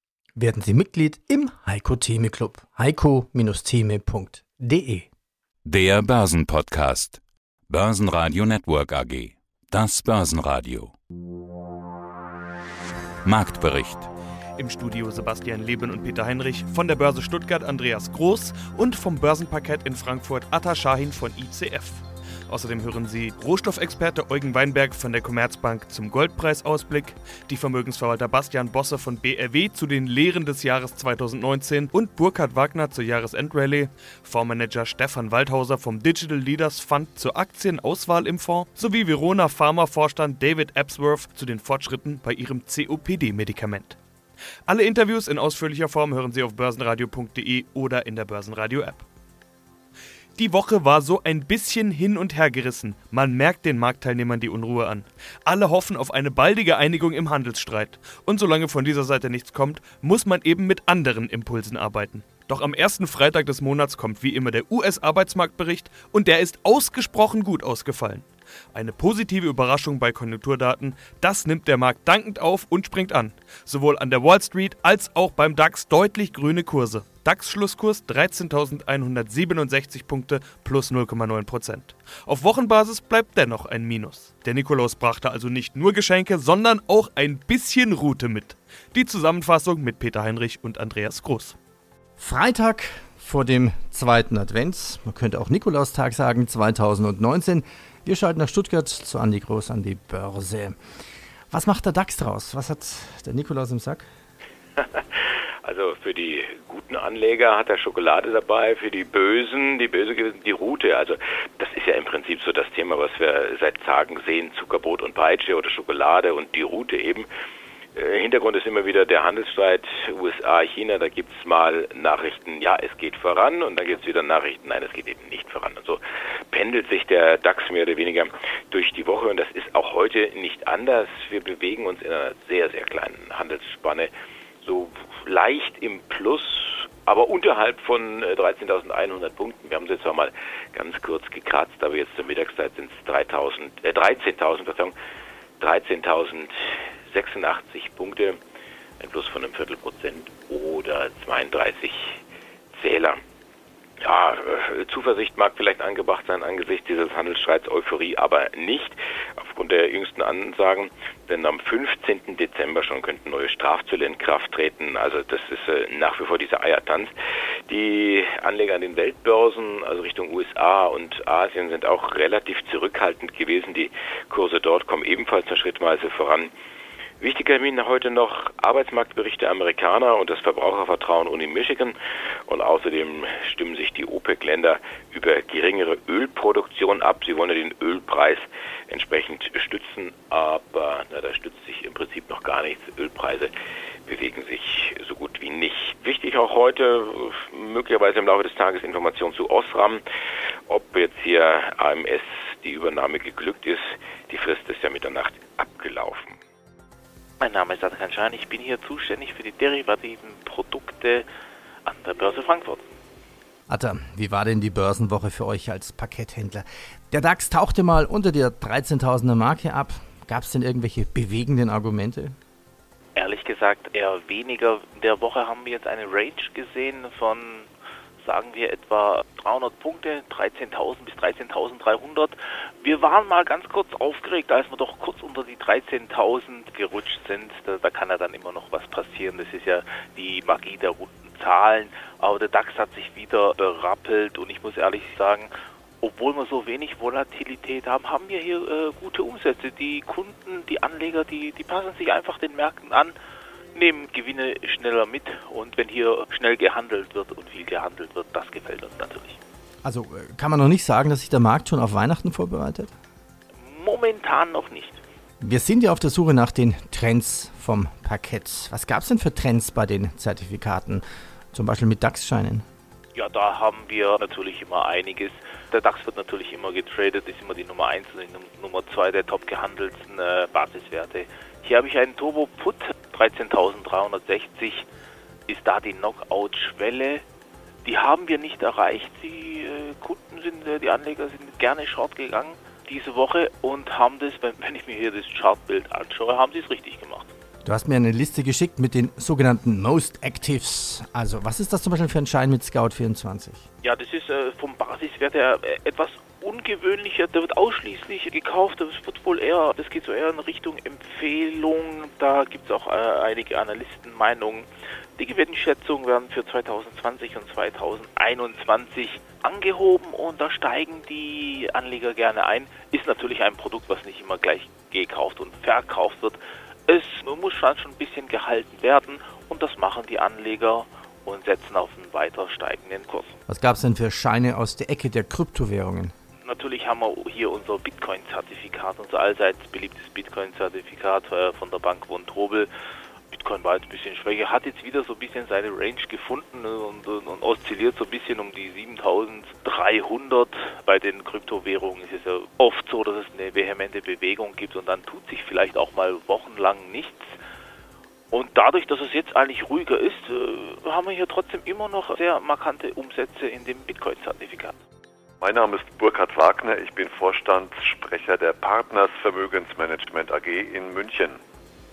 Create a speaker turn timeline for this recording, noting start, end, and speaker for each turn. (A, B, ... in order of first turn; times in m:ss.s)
0:00.4-0:05.1 A
0:05.6-0:10.9 B
0:13.2-0:14.1 B
0:14.6-0:44.0 C
0:44.7-0:49.0 C
0:50.4-1:31.6 C
1:32.2-1:40.7 A
1:41.5-1:44.0 A
1:45.6-1:57.2 D
1:58.0-2:06.0 D
2:06.5-2:14.1 D
2:14.6-2:24.9 D
2:25.6-2:26.5 D
2:27.1-2:28.4 D
2:29.0-2:32.2 D
2:32.7-2:33.2 D
2:34.0-2:47.1 D
2:47.7-2:56.5 D
2:57.2-3:02.0 D
3:02.5-3:13.5 D
3:14.1-3:20.0 D
3:20.7-3:26.4 D
3:27.4-3:31.2 E
3:31.8-3:32.8 E
3:33.7-3:42.3 A
3:43.2-3:47.7 E
3:48.2-4:13.2 E
4:13.7-4:19.4 E
4:19.8-4:22.9 A
4:23.6-4:25.0 E
4:25.4-4:32.6 A
4:33.1-4:44.9 E
4:45.5-4:47.2 E
4:47.8-4:57.3 E
4:57.6-5:03.6 A
5:03.8-5:33.4 E
5:33.5-5:36.1 A
5:36.4-5:42.7 E
5:43.3-5:57.4 E
5:58.3-6:04.8 E
6:05.4-6:11.4 F